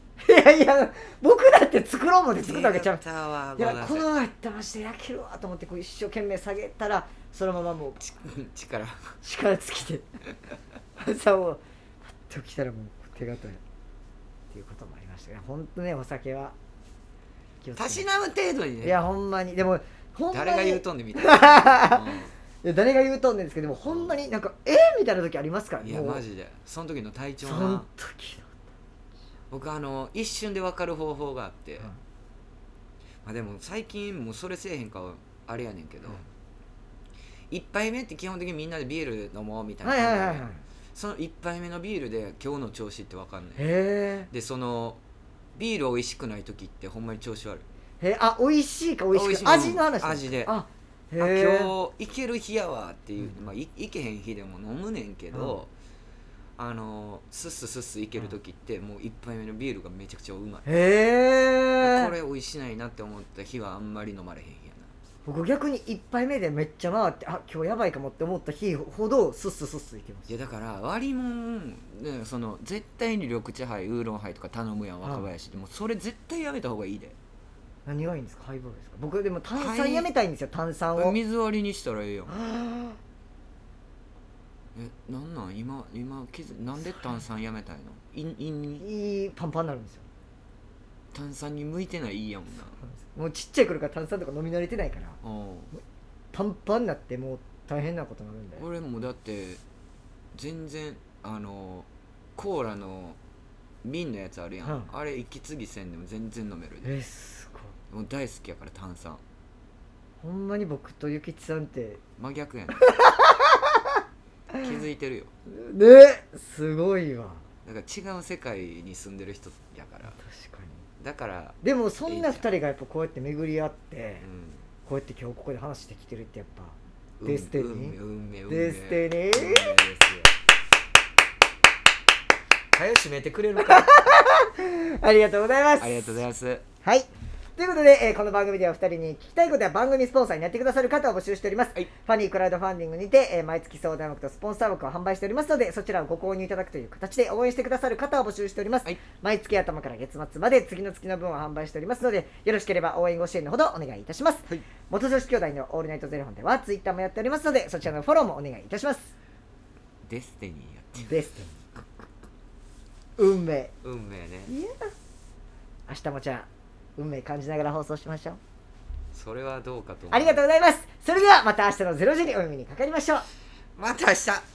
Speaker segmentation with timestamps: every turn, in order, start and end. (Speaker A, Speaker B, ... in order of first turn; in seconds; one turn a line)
Speaker A: 0.2-3.0
Speaker B: 2.4-4.1
Speaker A: 3.6-8.0
Speaker B: 8.0-9.2
Speaker A: 9.2-10.1
Speaker A: 11.0-13.6
Speaker A: 14.5-16.5
Speaker A: 17.6-18.1
Speaker B: 17.8-19.0
Speaker A: 18.8-22.1
Speaker B: 20.3-22.3
Speaker A: 22.6-26.2
Speaker B: 23.9-24.1
Speaker B: 25.8-27.9
Speaker A: 27.4-28.5
Speaker B: 29.5-31.9
Speaker B: 33.2-36.2
Speaker B: 37.5-43.7
Speaker A: 39.8-40.6
Speaker A: 43.6-44.3
Speaker B: 44.3-45.0
Speaker B: 45.5-47.6
Speaker A: 48.0-51.7
Speaker B: 49.1-50.5
Speaker B: 51.2-55.7
Speaker B: 56.6-60.7
Speaker A: 60.6-62.1
Speaker B: 61.8-64.9
Speaker A: 65.2-70.3
Speaker B: 70.3-77.2
Speaker A: 75.0-75.3
Speaker A: 77.8-81.2
Speaker B: 79.5-80.1
Speaker B: 81.0-82.3
Speaker A: 82.3-83.0
Speaker B: 84.7-88.8
Speaker A: 88.8-90.0
Speaker B: 91.1-92.8
Speaker A: 93.0-95.2
Speaker B: 95.2-95.7
Speaker A: 96.3-98.6
Speaker B: 98.5-99.6
Speaker B: 100.3-103.2
Speaker B: 103.8-106.9
Speaker A: 104.6-104.9
Speaker A: 106.8-107.7
Speaker B: 107.9-109.2
Speaker A: 110.2-112.0
Speaker B: 112.2-112.8
Speaker A: 112.8-113.7
Speaker B: 114.6-115.3
Speaker A: 115.5-117.4
Speaker B: 117.6-120.2
Speaker A: 120.2-120.8
Speaker B: 121.0-122.5
Speaker A: 121.6-124.2
Speaker B: 124.2-124.7
Speaker A: 124.8-128.0
Speaker B: 127.2-130.3
Speaker A: 128.5-129.8
Speaker B: 132.7-133.9
Speaker A: 133.6-136.0
Speaker B: 135.8-136.6
Speaker A: 136.8-159.1
Speaker B: 160.0-161.2
Speaker A: 161.0-161.6
Speaker A: 163.2-163.7
Speaker B: 163.8-164.5
Speaker A: 164.5-164.9
Speaker A: 165.9-168.4
Speaker B: 169.1-170.4
Speaker A: 170.1-173.2
Speaker B: 173.8-174.4